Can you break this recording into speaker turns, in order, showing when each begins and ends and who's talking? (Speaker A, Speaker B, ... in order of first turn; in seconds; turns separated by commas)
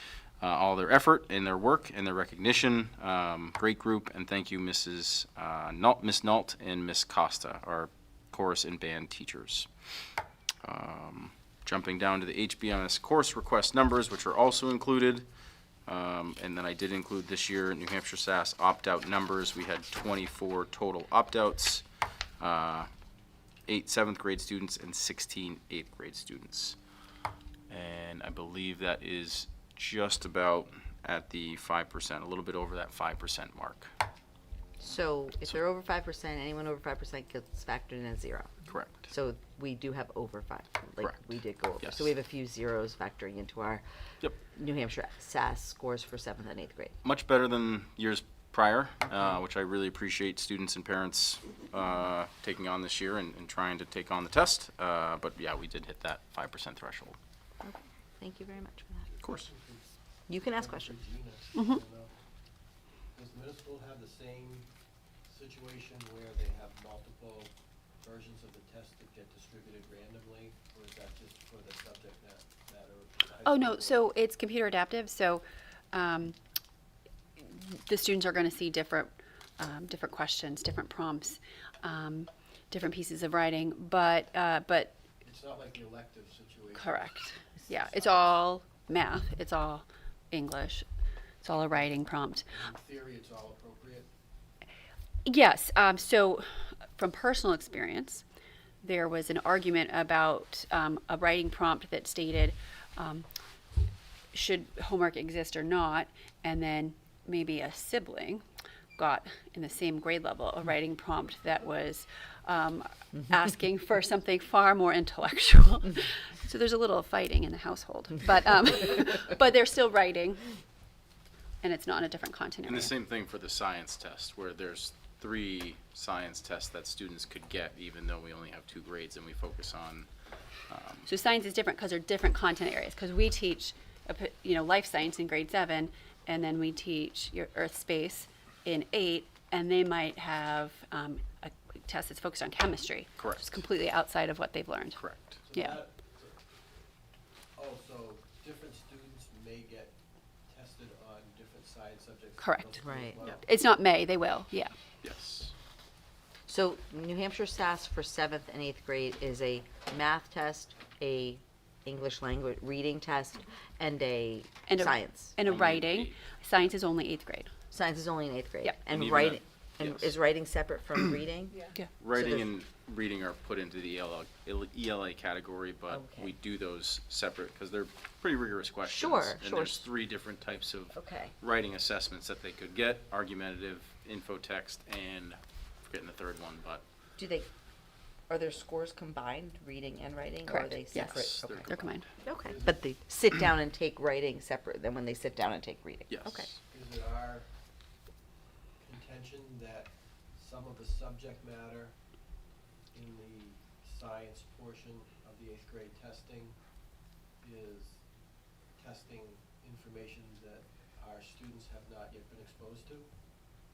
Speaker A: 0.4-9.7, Speaker A: 10.6-15.3, Speaker A: 15.9-21.8, Speaker A: 22.4-22.9, Speaker A: 23.7-26.8, Speaker A: 27.7-33.9, Speaker B: 34.8-43.8, Speaker A: 38.7-39.1, Speaker A: 41.8-42.1, Speaker B: 44.4-47.0, Speaker A: 47.0-57.2, Speaker B: 57.6-59.1, Speaker C: 59.1-59.9, Speaker A: 59.2-59.5, Speaker B: 60.3-60.9, Speaker C: 60.5-62.1, Speaker D: 61.5-61.8, Speaker C: 63.1-64.7, Speaker C: 65.3-74.0, Speaker D: 73.4-76.3, Speaker D: 77.4-85.0, Speaker C: 85.2-88.2, Speaker D: 86.7-90.8, Speaker D: 91.4-92.5, Speaker C: 92.5-94.1, Speaker D: 95.2-98.2, Speaker D: 98.8-103.3, Speaker D: 104.3-108.4, Speaker D: 109.0-120.5, Speaker D: 121.6-122.9, Speaker A: 122.6-130.1, Speaker A: 130.7-131.1, Speaker D: 131.1-145.0, Speaker A: 143.2-143.6, Speaker A: 144.9-145.4, Speaker C: 145.4-146.3, Speaker D: 145.5-145.8, Speaker C: 147.6-149.9, Speaker C: 150.5-153.4, Speaker D: 152.4-154.7, Speaker B: 152.8-153.2, Speaker A: 155.0-155.5, Speaker B: 156.5-165.3, Speaker D: 164.7-167.5, Speaker A: 165.4-166.3, Speaker B: 167.7-172.5, Speaker A: 168.9-170.1, Speaker A: 172.0-186.8, Speaker B: 175.9-176.3, Speaker B: 178.8-179.9, Speaker B: 180.9-181.3, Speaker B: 187.2-187.5, Speaker B: 188.3-196.5, Speaker D: 190.5-192.1, Speaker A: 190.9-192.0, Speaker C: 192.4-192.8, Speaker A: 196.1-196.6, Speaker C: 196.6-197.5, Speaker C: 198.8-201.9, Speaker C: 202.9-206.5, Speaker C: 207.4-208.0, Speaker C: 208.8-213.1